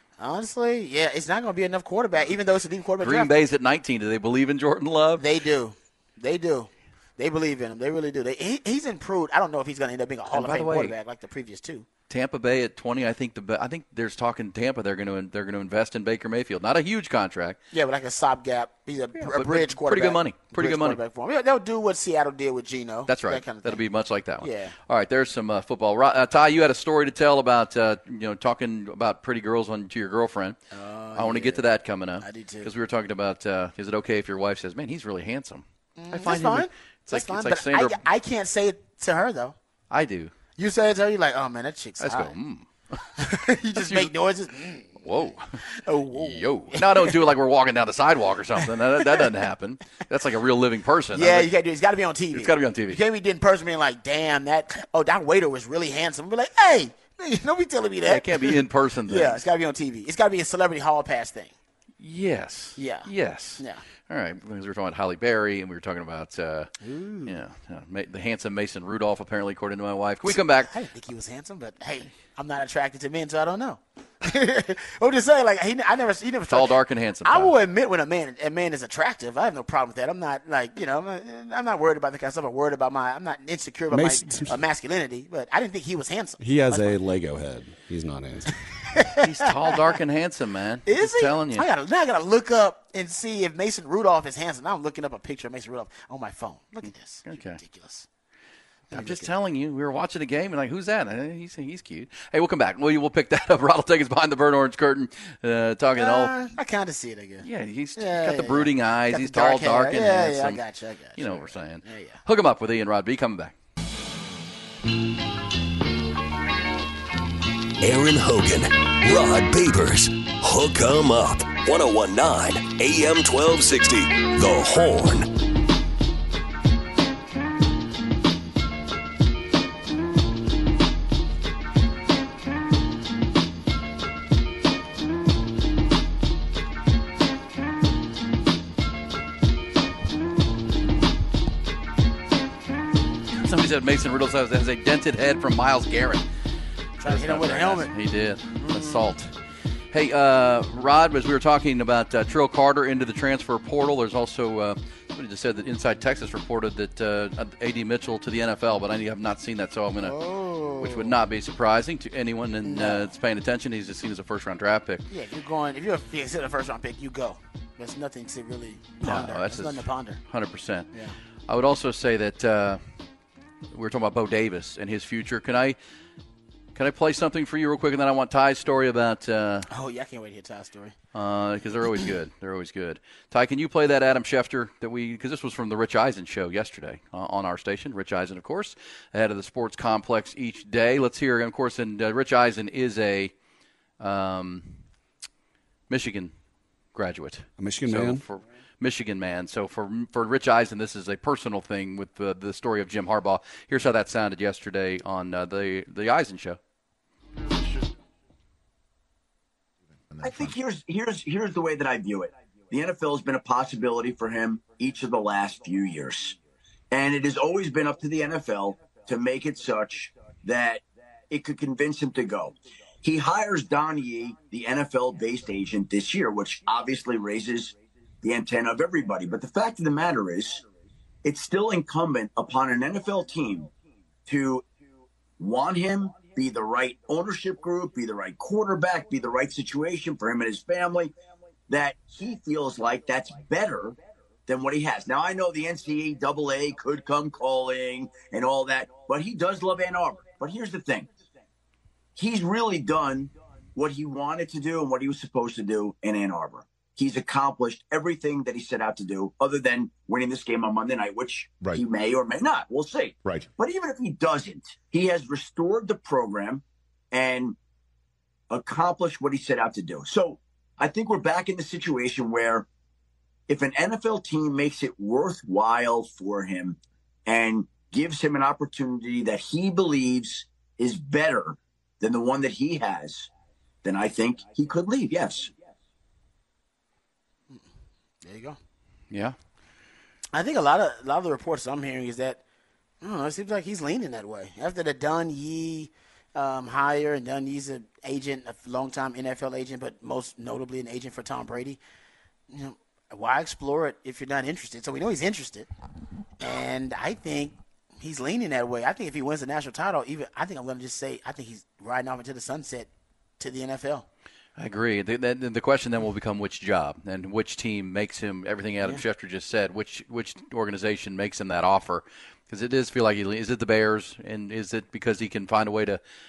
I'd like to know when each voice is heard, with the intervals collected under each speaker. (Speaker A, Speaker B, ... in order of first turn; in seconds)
Speaker A: 0.2-3.3, 5.2-11.8, 17.7-23.8, 24.4-24.8, 30.7-31.6, 32.2-32.7, 36.0-39.5, 40.6-42.3, 43.2-45.1, 45.6-47.2, 48.6-49.3, 51.1-61.5, 62.8-63.8, 66.8-67.4, 70.3-87.0, 88.7-90.0, 90.8-98.1, 98.9-99.3, 106.0-112.2, 147.0-147.9, 148.6-149.1, 160.0-161.2, 162.6-163.1, 165.1-170.2, 170.9-171.2, 179.7-181.0, 288.2-288.6, 290.3-292.4, 293.0-301.8, 302.5-305.7, 306.4-314.1
Speaker B: 3.0-5.2, 10.3-10.9, 12.1-17.6, 19.3-21.0, 23.1-30.6, 31.1-38.0, 39.9-40.3, 42.0-44.1, 45.0-51.5, 52.3-53.0, 58.0-59.5, 62.0-66.7, 67.2-70.7, 76.5-77.5, 89.2-91.7, 96.8-97.6, 98.9-106.3, 107.4-110.6, 111.2-113.5, 143.4-146.2, 147.0-149.3, 149.9-160.2, 160.8-165.0, 169.0-170.9, 171.5-172.8, 173.7-175.8, 176.7-179.7, 181.1-193.3, 194.0-194.8, 195.9-196.3, 196.9-206.6, 289.1-289.4, 314.6-326.0
Speaker C: 83.9-84.6, 86.4-88.6, 197.6-198.2
Speaker D: 117.8-125.3
Speaker E: 210.2-216.4, 216.9-230.6, 231.2-233.7, 234.2-234.7, 235.4-241.1, 241.7-251.1, 252.2-267.6, 268.5-272.6, 273.5-283.3, 283.8-285.5